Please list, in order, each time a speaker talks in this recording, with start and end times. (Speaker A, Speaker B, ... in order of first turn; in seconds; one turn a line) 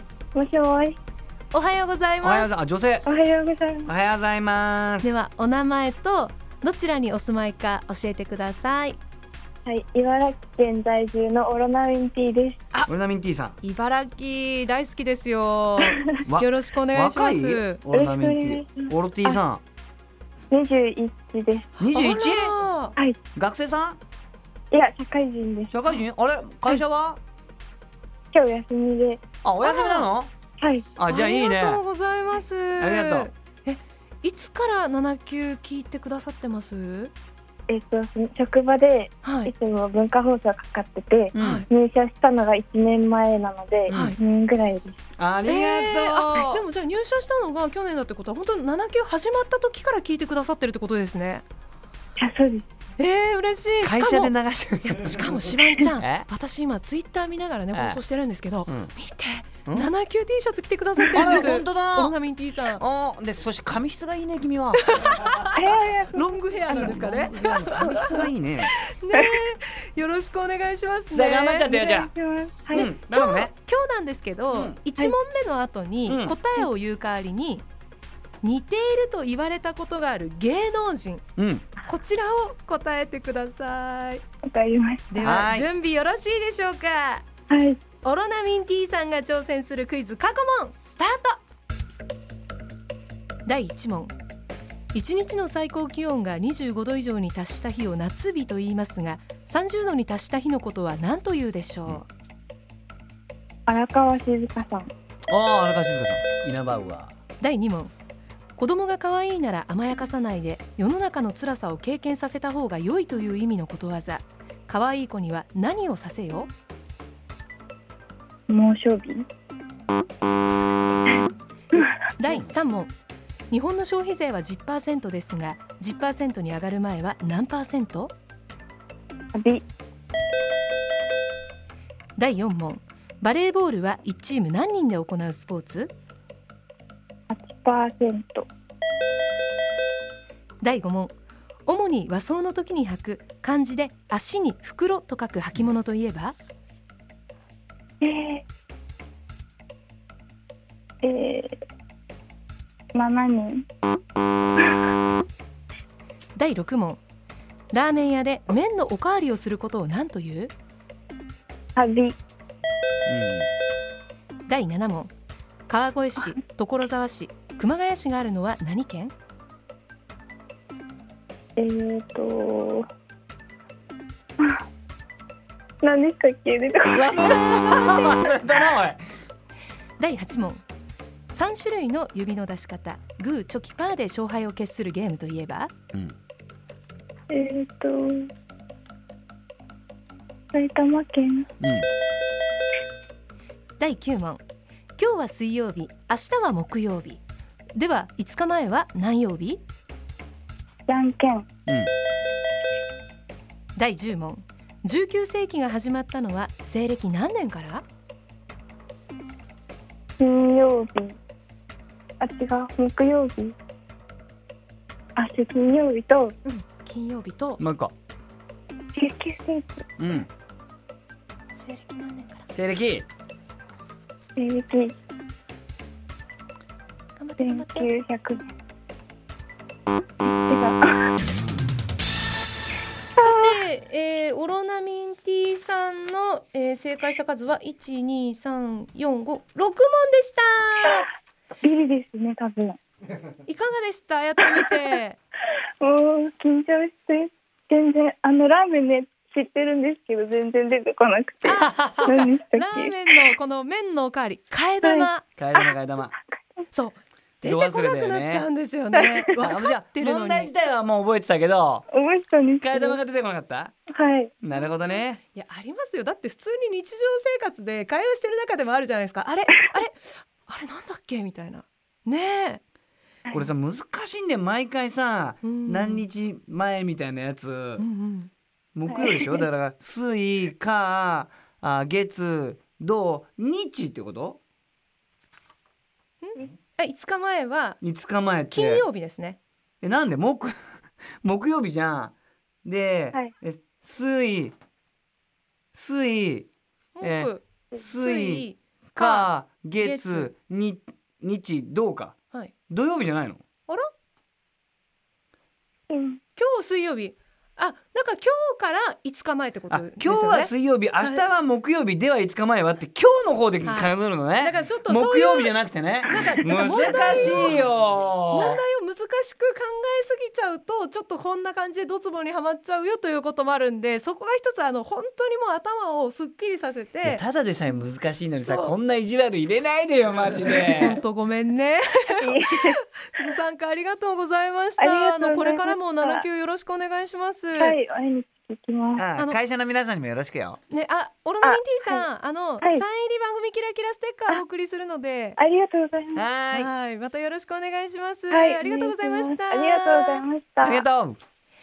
Speaker A: 0.3-1.0
Speaker B: 1.5-2.5
Speaker C: 2.2-3.1
Speaker A: 3.1-3.9
Speaker C: 3.9-5.1
Speaker B: 5.0-9.0
Speaker A: 9.7-12.7
Speaker C: 12.9-13.6
Speaker B: 13.6-17.8
Speaker C: 16.3-19.6
Speaker A: 17.9-19.4
Speaker A: 20.5-21.9
Speaker C: 21.8-22.5
Speaker B: 21.9-23.0
Speaker C: 23.4-24.0
Speaker A: 24.7-25.8
Speaker C: 25.7-27.2
Speaker A: 28.3-29.2
Speaker C: 29.4-30.3
Speaker B: 29.6-30.1
Speaker A: 30.6-30.9
Speaker C: 31.0-31.8
Speaker B: 31.1-37.1
Speaker C: 32.8-33.3
Speaker A: 37.7-45.0
Speaker B: 39.2-39.5
Speaker C: 41.3-41.7
Speaker B: 41.4-41.7
Speaker C: 43.9-44.2
Speaker B: 43.9-44.2
Speaker C: 45.2-46.6
Speaker B: 45.5-51.4
Speaker A: 52.2-52.7
Speaker B: 53.0-54.3
Speaker C: 53.8-56.3
Speaker B: 55.0-62.8
Speaker C: 57.7-58.0
Speaker C: 58.7-58.9
Speaker C: 61.1-62.1
Speaker C: 62.8-65.0
Speaker B: 64.8-71.7
Speaker A: 65.5-67.0
Speaker C: 66.7-68.7
Speaker C: 71.1-72.1
Speaker A: 71.7-72.9
Speaker C: 72.7-73.5
Speaker B: 72.7-77.6
Speaker C: 76.1-76.3
Speaker B: 78.4-81.2
Speaker C: 81.4-81.7
Speaker B: 81.8-84.2
Speaker A: 84.4-85.4
Speaker B: 85.1-87.2
Speaker C: 85.2-85.7
Speaker A: 87.5-87.8
Speaker B: 88.0-91.4
Speaker B: 93.5-94.1
Speaker B: 94.9-102.1
Speaker A: 103.7-104.9
Speaker C: 105.3-107.1
Speaker B: 107.4-107.9
Speaker B: 108.6-116.5
Speaker A: 118.5-119.3
Speaker A: 121.0-121.9
Speaker B: 121.7-122.9
Speaker B: 123.5-128.1
Speaker A: 129.3-129.6
Speaker B: 132.2-135.9
Speaker A: 137.3-138.5
Speaker B: 140.6-141.2
Speaker B: 141.7-146.4
Speaker A: 148.0-148.4
Speaker A: 151.0-151.6
Speaker A: 152.9-153.6
Speaker B: 156.4-157.0
Speaker B: 157.7-160.5
Speaker A: 161.8-162.2
Speaker C: 163.1-163.5
Speaker B: 164.5-165.1
Speaker B: 165.7-169.1
Speaker A: 171.6-172.9
Speaker A: 175.8-178.4
Speaker C: 176.9-179.0
Speaker B: 180.0-180.6
Speaker B: 181.3-185.7
Speaker A: 187.3-188.3
Speaker A: 190.5-191.5
Speaker C: 191.6-191.9
Speaker B: 193.8-194.4
Speaker B: 195.0-197.2
Speaker B: 197.8-199.6
Speaker A: 200.9-201.5
Speaker B: 203.8-207.8
Speaker A: 210.2-211.2
Speaker A: 212.2-213.6
Speaker A: 215.2-216.3
Speaker B: 216.4-217.6
Speaker C: 217.6-217.9
Speaker A: 218.9-219.8
Speaker C: 220.0-220.3
Speaker B: 221.6-222.5
Speaker C: 222.5-223.1
Speaker A: 224.4-224.9
Speaker B: 227.2-227.9
Speaker A: 227.4-228.5
Speaker A: 230.2-231.1
Speaker B: 233.2-241.1
Speaker A: 233.2-233.5
Speaker A: 241.6-242.8
Speaker B: 243.5-245.2
Speaker A: 244.4-244.8
Speaker A: 245.8-253.2
Speaker B: 251.4-255.3
Speaker C: 251.7-252.1
Speaker A: 254.8-255.1
Speaker C: 255.4-256.2
Speaker A: 256.2-256.6
Speaker B: 256.7-260.5
Speaker C: 257.4-258.5
Speaker C: 259.4-261.9
Speaker A: 261.9-263.0
Speaker C: 262.6-263.7
Speaker A: 263.9-264.3
Speaker C: 264.4-265.2
Speaker B: 264.6-272.6
Speaker C: 273.3-277.8
Speaker B: 275.4-276.1
Speaker B: 277.8-278.3
Speaker C: 278.8-284.4
Speaker A: 278.9-279.4
Speaker B: 286.2-287.8
Speaker C: 287.8-288.9
Speaker B: 288.5-289.4
Speaker C: 289.8-290.6
Speaker C: 291.2-294.6
Speaker C: 295.8-296.5
Speaker B: 297.0-300.3
Speaker C: 297.0-302.1
Speaker C: 302.7-303.4
Speaker A: 305.9-306.2
Speaker B: 306.4-311.2
Speaker C: 309.7-318.6
Speaker B: 313.6-315.5
Speaker B: 316.1-317.7
Speaker B: 318.3-327.2
Speaker C: 327.0-331.0
Speaker B: 328.3-328.8
Speaker B: 330.6-337.8
Speaker A: 332.2-332.8
Speaker A: 334.8-336.2
Speaker A: 337.6-339.1
Speaker C: 339.0-340.6
Speaker B: 340.7-345.4
Speaker A: 341.4-342.1
Speaker A: 345.4-346.2
Speaker C: 346.1-346.7
Speaker B: 346.5-350.2
Speaker A: 348.3-350.9
Speaker C: 350.6-351.2